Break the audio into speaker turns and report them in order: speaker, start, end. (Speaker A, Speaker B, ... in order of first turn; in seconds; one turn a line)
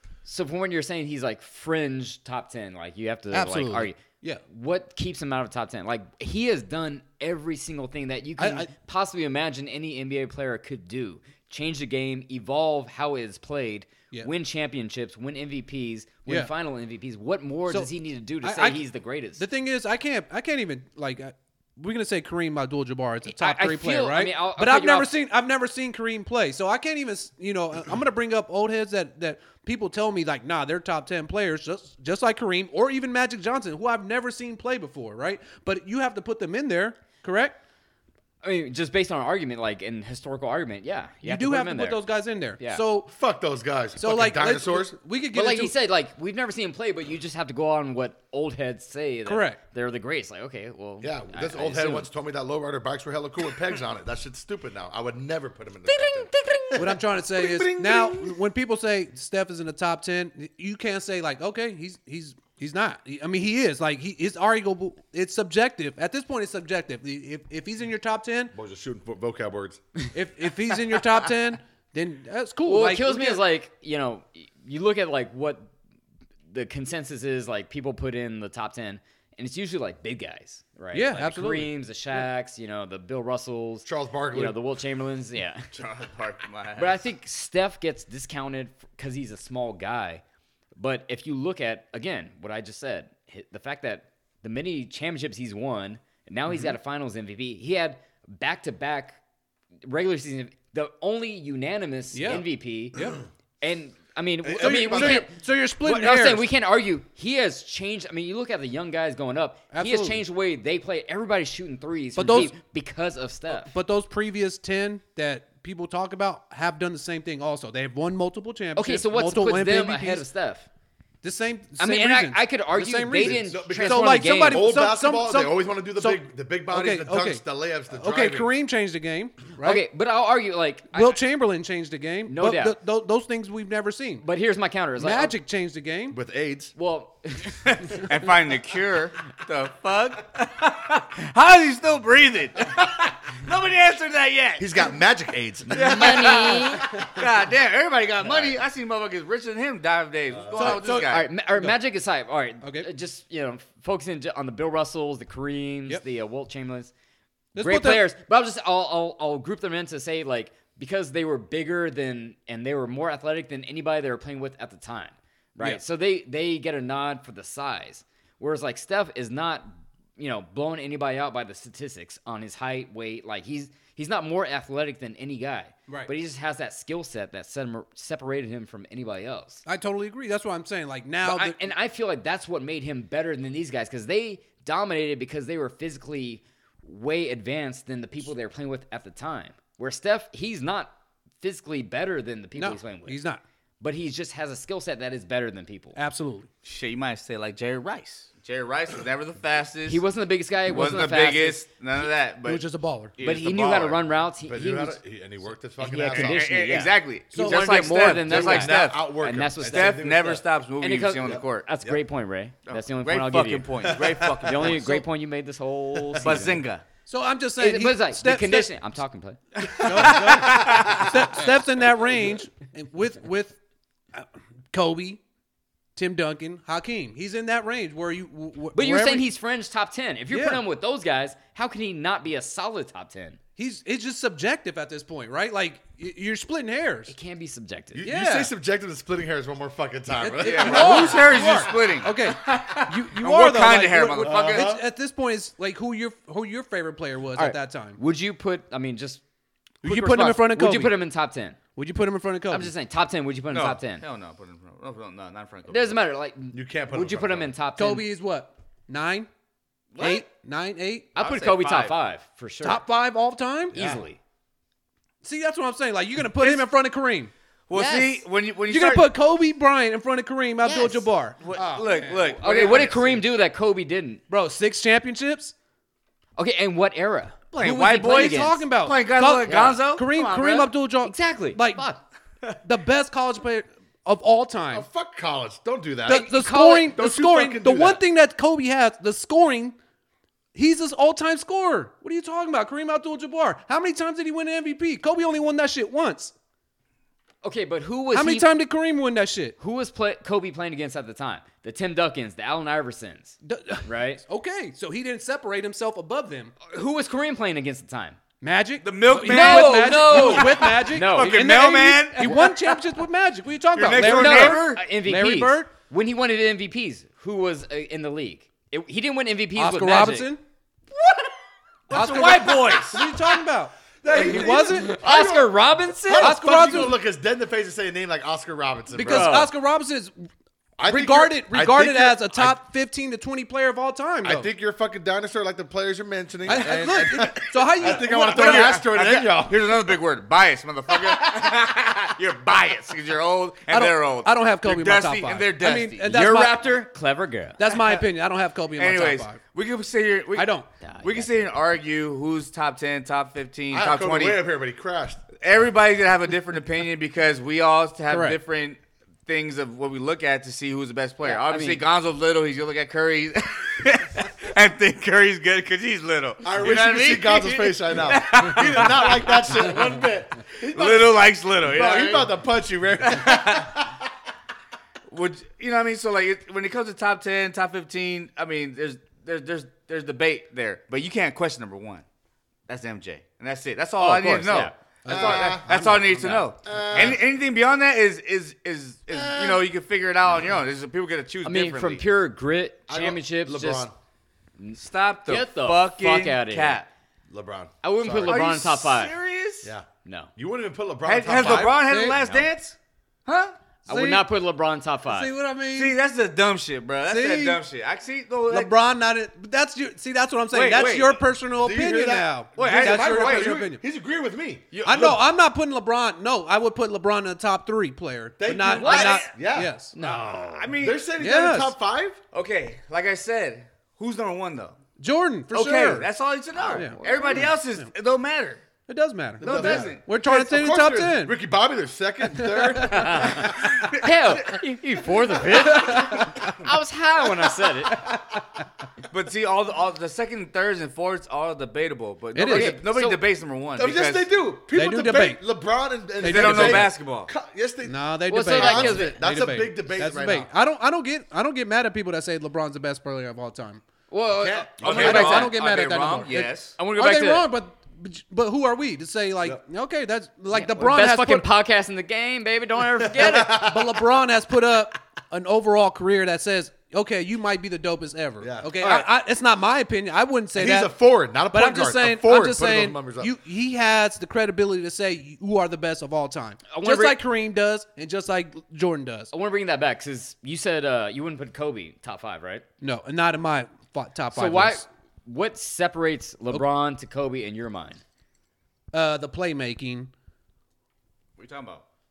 Speaker A: 0.2-19.4
Speaker B: 3.3-4.4
Speaker B: 8.4-8.7
Speaker B: 16.2-16.5
Speaker B: 18.4-18.8
Speaker B: 19.4-37.6
Speaker A: 23.2-25.1
Speaker A: 38.4-42.0
Speaker B: 41.2-43.1
Speaker C: 43.1-44.9
Speaker B: 44.0-45.7
Speaker A: 45.3-52.1
Speaker B: 49.2-49.6
Speaker C: 51.0-58.4
Speaker A: 55.9-56.9
Speaker B: 56.8-68.5
Speaker C: 68.5-69.8
Speaker B: 70.1-73.4
Speaker A: 72.6-75.7
Speaker A: 76.5-85.7
Speaker B: 80.9-82.2
Speaker C: 83.8-84.6
Speaker D: 85.7-87.0
Speaker A: 86.8-90.2
Speaker A: 90.8-99.2
Speaker B: 96.5-96.7
Speaker A: 99.8-103.0
Speaker B: 102.1-103.2
Speaker A: 103.6-113.7
Speaker C: 104.4-105.2
Speaker B: 104.6-106.5
Speaker B: 109.7-110.2
Speaker B: 112.2-112.5
Speaker B: 113.5-120.2
Speaker A: 118.8-120.7
Speaker B: 121.2-129.8
Speaker A: 121.8-124.8
Speaker C: 123.2-128.5
Speaker A: 129.6-131.2
Speaker B: 130.9-134.2
Speaker A: 132.3-132.8
Speaker A: 134.2-135.3
Speaker B: 135.0-136.2
Speaker C: 136.1-136.7
Speaker A: 136.8-138.1
Speaker D: 137.7-144.9
Speaker C: 144.6-146.2
Speaker D: 145.7-151.3
Speaker A: 145.7-146.9
Speaker C: 150.3-150.9
Speaker B: 150.5-151.8
Speaker A: 150.8-156.9
Speaker B: 152.6-152.9
Speaker B: 157.5-158.0
Speaker A: 157.6-179.6
Speaker B: 179.7-181.6
Speaker A: 181.2-193.2
Speaker B: 192.6-193.4
Speaker A: 193.8-196.0
Speaker B: 195.9-196.5
Speaker D: 196.6-200.0
Speaker A: 199.8-201.6
Speaker D: 200.7-204.0
Speaker B: 202.4-203.1
Speaker A: 203.2-205.0
Speaker C: 204.4-206.5
Speaker A: 205.8-210.0
Speaker D: 206.1-209.0
Speaker B: 207.3-207.7
Speaker C: 208.2-210.4
Speaker D: 209.6-211.7
Speaker A: 210.8-216.6
Speaker C: 211.2-212.0
Speaker D: 212.7-214.9
Speaker C: 213.8-214.7
Speaker B: 214.7-215.0
Speaker D: 216.2-216.8
Speaker B: 217.1-218.7
Speaker A: 217.6-219.4
Speaker D: 219.6-221.3
Speaker B: 219.8-223.6
Speaker C: 220.5-220.9
Speaker B: 224.1-225.2
Speaker B: 225.9-229.3
Speaker A: 228.7-233.4
Speaker B: 230.3-230.6
Speaker B: 233.6-237.1
Speaker A: 237.1-238.0
Speaker C: 237.9-241.8
Speaker B: 238.0-238.5
Speaker B: 240.2-248.0
Speaker D: 240.4-244.8
Speaker C: 244.2-244.8
Speaker A: 247.3-249.2
Speaker B: 249.8-251.0
Speaker A: 249.8-251.6
Speaker B: 251.7-252.7
Speaker A: 252.5-254.0
Speaker D: 253.5-256.0
Speaker A: 255.7-258.1
Speaker C: 256.5-257.5
Speaker B: 257.8-259.3
Speaker D: 259.9-260.2
Speaker B: 260.0-261.1
Speaker A: 261.1-262.8
Speaker D: 261.2-261.9
Speaker B: 262.6-263.8
Speaker C: 263.7-264.0
Speaker A: 263.7-264.2
Speaker B: 265.2-267.3
Speaker D: 266.4-266.6
Speaker D: 267.7-269.1
Speaker A: 267.7-268.2
Speaker B: 268.7-272.7
Speaker A: 270.6-271.1
Speaker D: 271.4-273.2
Speaker A: 272.4-274.2
Speaker B: 274.3-275.5
Speaker A: 276.4-278.6
Speaker D: 277.5-280.7
Speaker B: 278.0-281.9
Speaker A: 279.4-279.8
Speaker A: 281.0-282.0
Speaker B: 282.6-284.9
Speaker C: 284.7-288.0
Speaker B: 286.1-289.8
Speaker A: 286.1-286.9
Speaker B: 290.5-296.3
Speaker A: 297.4-298.5
Speaker B: 298.1-299.6
Speaker A: 299.6-304.2
Speaker B: 303.4-306.5
Speaker A: 306.7-308.2
Speaker B: 308.4-315.7
Speaker D: 308.8-312.8
Speaker A: 309.2-311.5
Speaker D: 313.7-314.8
Speaker A: 313.9-320.3
Speaker B: 319.6-320.4
Speaker D: 321.9-323.1
Speaker B: 321.9-324.9
Speaker C: 324.0-329.4
Speaker A: 324.1-326.4
Speaker B: 326.1-327.0
Speaker B: 328.9-330.3
Speaker A: 329.0-329.5
Speaker C: 330.8-332.6
Speaker B: 330.8-334.5
Speaker C: 334.2-339.9
Speaker B: 336.4-338.8
Speaker D: 337.8-346.1
Speaker B: 343.7-346.6
Speaker A: 346.0-347.6
Speaker B: 347.6-349.4
Speaker D: 348.8-354.4
Speaker B: 350.3-350.7
Speaker A: 350.8-351.4
Speaker C: 353.7-355.2
Speaker D: 355.4-370.0
Speaker B: 358.1-358.4
Speaker A: 361.2-361.8
Speaker C: 366.4-374.0
Speaker D: 370.6-372.3
Speaker D: 373.0-373.8
Speaker D: 375.1-382.0
Speaker D: 382.7-392.0
Speaker A: 384.0-384.7
Speaker B: 385.0-386.4
Speaker C: 385.1-385.7
Speaker A: 386.1-386.4
Speaker C: 386.6-387.2
Speaker C: 389.1-389.6
Speaker A: 391.4-393.9
Speaker C: 392.9-393.9
Speaker A: 394.6-396.8
Speaker D: 394.8-396.9
Speaker C: 397.3-398.4
Speaker A: 397.8-399.1
Speaker D: 398.2-399.7
Speaker C: 399.6-401.8
Speaker A: 400.0-400.3
Speaker D: 401.0-403.5
Speaker B: 401.5-402.2
Speaker A: 403.9-405.3
Speaker B: 403.9-404.2
Speaker B: 405.1-405.9
Speaker D: 405.7-408.7
Speaker B: 407.1-407.6
Speaker B: 408.5-413.8
Speaker D: 410.5-411.2
Speaker C: 411.5-415.2
Speaker D: 412.6-413.6
Speaker D: 414.7-415.1
Speaker B: 414.8-419.9
Speaker C: 418.4-422.2
Speaker D: 418.7-419.3
Speaker A: 418.8-419.2
Speaker A: 419.9-420.7
Speaker D: 420.6-421.0
Speaker B: 421.2-421.7
Speaker D: 422.3-424.8
Speaker B: 425.0-426.1
Speaker D: 425.5-428.6
Speaker B: 426.7-427.9
Speaker B: 428.9-431.3
Speaker C: 429.4-433.7
Speaker D: 429.4-430.0
Speaker B: 432.3-433.3
Speaker A: 432.9-438.1
Speaker D: 433.3-434.6
Speaker B: 435.7-436.4
Speaker D: 439.1-444.2
Speaker B: 442.3-442.8
Speaker A: 442.5-443.2
Speaker C: 443.8-450.5
Speaker B: 444.7-445.4
Speaker B: 446.2-446.9
Speaker D: 446.2-447.3
Speaker B: 447.8-453.8
Speaker A: 448.3-449.2
Speaker A: 454.1-455.5
Speaker C: 454.3-455.4
Speaker D: 454.8-456.7
Speaker B: 454.8-461.5
Speaker A: 456.8-457.5
Speaker A: 460.5-463.6
Speaker C: 463.0-464.1
Speaker B: 463.3-470.9
Speaker C: 468.4-468.9
Speaker A: 468.8-469.1
Speaker C: 470.5-473.3
Speaker B: 471.5-479.3
Speaker A: 476.7-477.2
Speaker A: 479.3-482.6
Speaker B: 482.8-484.8
Speaker A: 484.3-488.0
Speaker B: 488.9-490.1
Speaker D: 491.4-491.8